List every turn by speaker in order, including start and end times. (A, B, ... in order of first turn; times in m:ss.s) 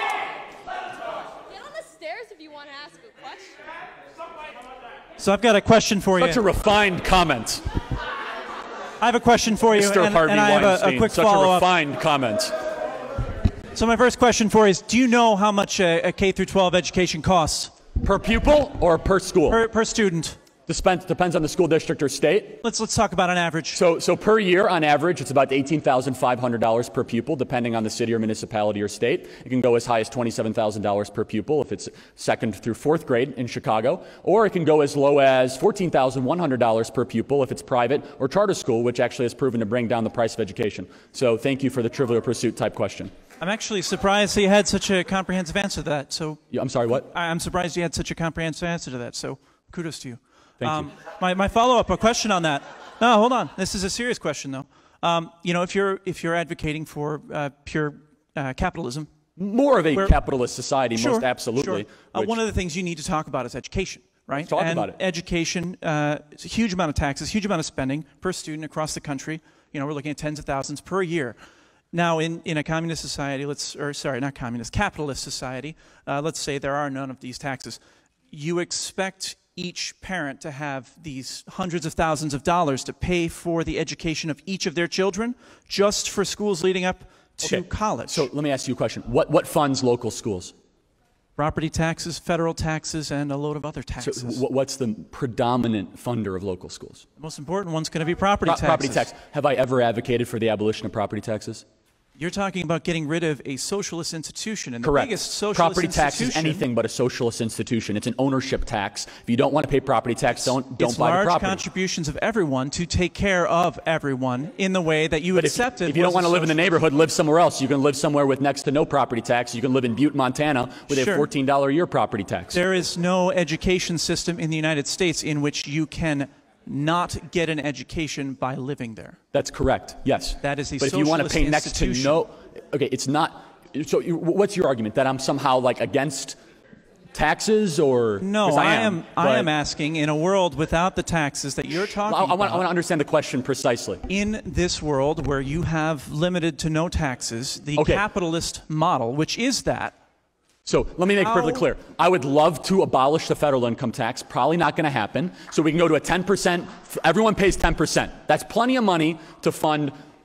0:01.5-0:03.5 A
0:05.2-0:06.4 B
0:06.2-0:07.7 C
0:09.0-0:11.7 B
0:09.7-0:12.5 C
0:13.7-0:17.7 B
0:18.0-0:19.6 C
0:19.5-0:20.4 B
0:20.7-0:22.6 C
0:22.6-0:23.8 B
0:23.7-0:43.1 C
0:43.4-0:59.1 B
0:46.5-0:47.1 C
0:50.6-0:50.9 C
0:59.4-1:02.4 C
1:01.0-1:11.4 B
1:04.3-1:05.0 C
1:11.9-1:17.8 B
1:18.3-1:28.3 B
1:27.4-1:30.5 C
1:31.4-1:34.4 B
1:34.0-1:37.0 C
1:37.2-1:39.1 B
1:38.4-1:41.6 C
1:42.2-1:46.6 B
1:44.8-1:51.6 C
1:50.3-1:56.7 B
1:55.3-2:02.6 C
2:00.9-2:01.3 B
2:02.5-2:09.2 B
2:09.3-2:16.4 C
2:10.4-2:12.2 B
2:17.1-2:19.5 C
2:18.2-2:22.7 B
2:22.0-2:24.0 C
2:24.1-2:29.9 B
2:27.8-2:28.0 C
2:30.7-2:39.9 C
2:31.2-2:31.7 B